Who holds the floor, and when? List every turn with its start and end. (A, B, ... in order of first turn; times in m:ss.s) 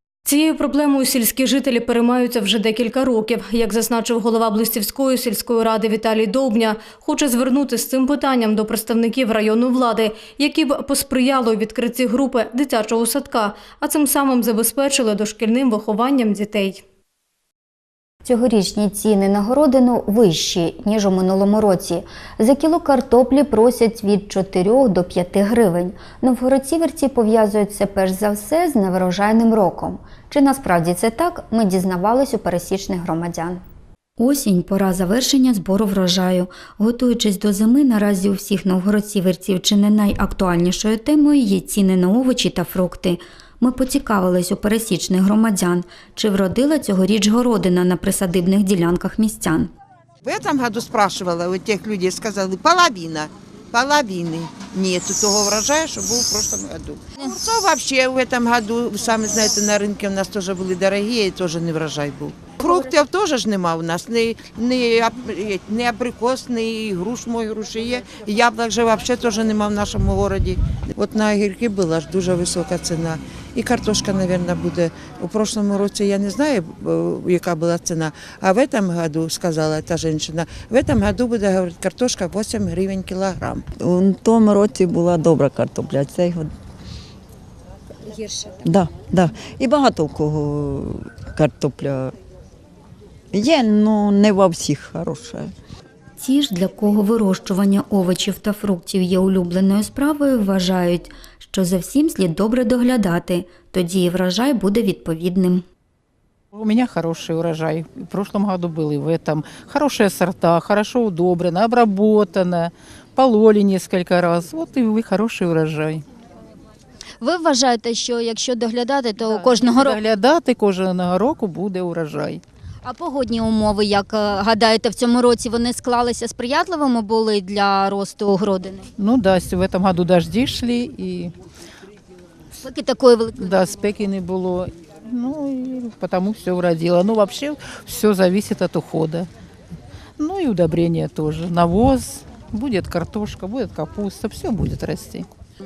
0:00.2-0:16.8 A
0:18.2-0:33.6 B
0:34.2-0:49.7 B
0:50.2-1:23.6 C
1:23.8-1:26.5 D
1:28.2-1:28.5 E
1:28.6-1:32.2 D
1:33.3-1:35.5 D
1:36.2-1:45.6 B
1:46.5-1:56.0 F
1:57.2-2:00.0 E
1:59.2-2:02.4 F
2:02.8-2:08.9 E
2:09.0-2:11.3 F
2:12.6-2:13.5 E
2:13.4-2:19.3 F
2:20.2-2:25.3 F